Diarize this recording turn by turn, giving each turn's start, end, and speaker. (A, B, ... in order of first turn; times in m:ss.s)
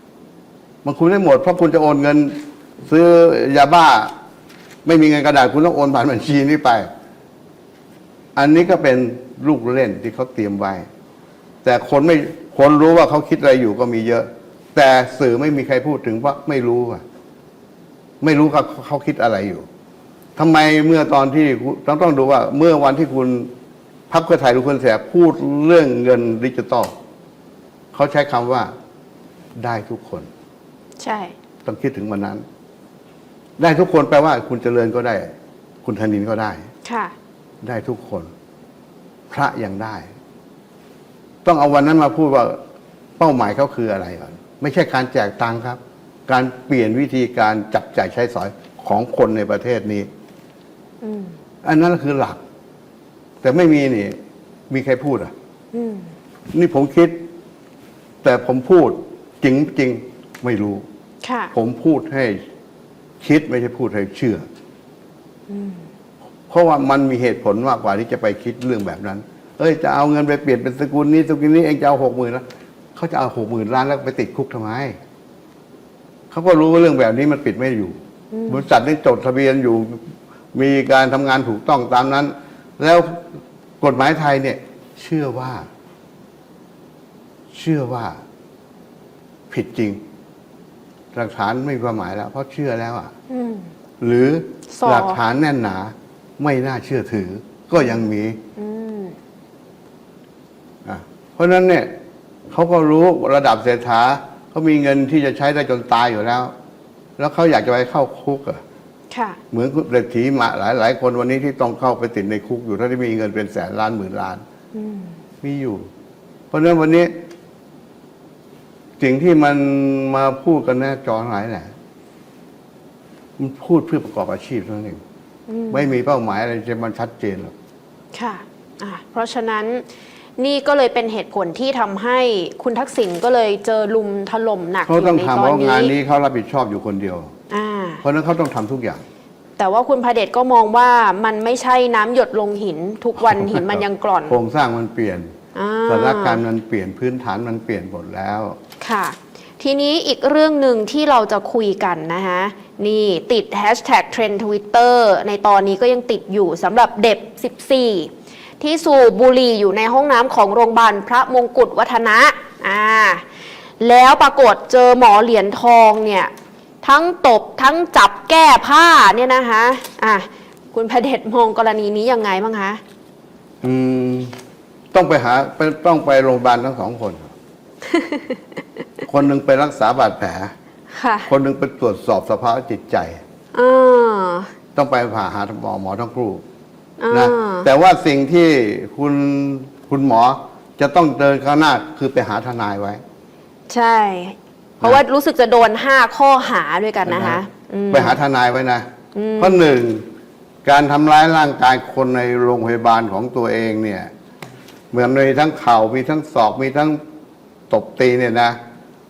0:00.8-0:04.1 A
0:04.8-0:06.9 A
0:08.3-0:10.8 A
0:11.6-0:17.0 A
0:18.2-0:19.7 A
0:20.4-0:23.5 A
0:24.1-0:26.9 A
0:27.9-0:28.7 A
0:29.6-0:30.3 A
0:31.0-0:31.3 B
0:31.6-0:32.4 A
0:33.6-0:35.3 A
0:35.8-0:36.6 A
0:36.8-0:37.1 B
0:37.6-0:38.3 A
0:39.3-0:40.1 A
0:41.4-0:42.6 A
0:43.2-0:50.1 A
0:51.0-0:51.4 B
0:51.6-0:52.4 A
0:53.4-0:54.2 A
0:54.7-0:55.3 A
0:55.7-0:56.1 B
0:56.5-0:57.2 A
0:58.2-1:00.8 A
1:01.2-1:01.5 B
1:01.5-1:02.4 A
1:03.2-1:04.4 A
1:05.5-1:05.8 B
1:06.5-1:12.4 A
1:13.0-1:15.0 A
1:16.3-1:20.0 A
1:18.3-1:18.6 B
1:20.5-1:23.3 A
1:23.8-1:25.6 A
1:27.5-1:28.2 A
1:29.5-1:30.0 A
1:31.1-1:33.1 A
1:33.3-1:33.7 B
1:34.0-1:38.4 A
1:34.7-1:35.2 B
1:38.6-1:39.2 B
1:40.8-1:41.9 A
1:42.5-1:46.5 A
1:47.2-1:48.6 A
1:49.1-1:49.4 B
1:49.5-1:54.4 A
1:54.7-1:55.2 B
1:55.4-1:55.9 A
1:56.5-1:57.2 A
1:59.0-2:01.7 A
2:03.4-2:05.0 A
2:05.5-2:05.9 B
2:05.7-2:07.5 A
2:08.1-2:09.8 B
2:10.4-2:15.9 B
2:14.8-2:17.3 A
2:17.5-2:18.0 B
2:18.0-2:19.0 A
2:19.6-2:24.4 B
2:23.2-2:25.3 A
2:25.5-2:26.4 B
2:25.9-2:28.6 A
2:28.8-2:43.2 B
2:43.8-2:46.3 B
2:46.8-2:52.8 B
2:53.6-2:54.3 A
2:54.9-2:57.3 A
2:57.8-2:58.4 B
2:59.1-3:00.5 A
3:00.9-3:01.3 B
3:01.3-3:03.2 A
3:03.5-3:04.5 B
3:04.7-3:06.4 A
3:07.0-3:07.7 B
3:07.1-3:13.0 A
3:13.7-3:18.2 B
3:17.0-3:18.9 A
3:19.1-3:19.6 B
3:19.4-3:20.0 A
3:20.6-3:24.1 A
3:24.9-3:27.0 A
3:27.7-3:28.6 A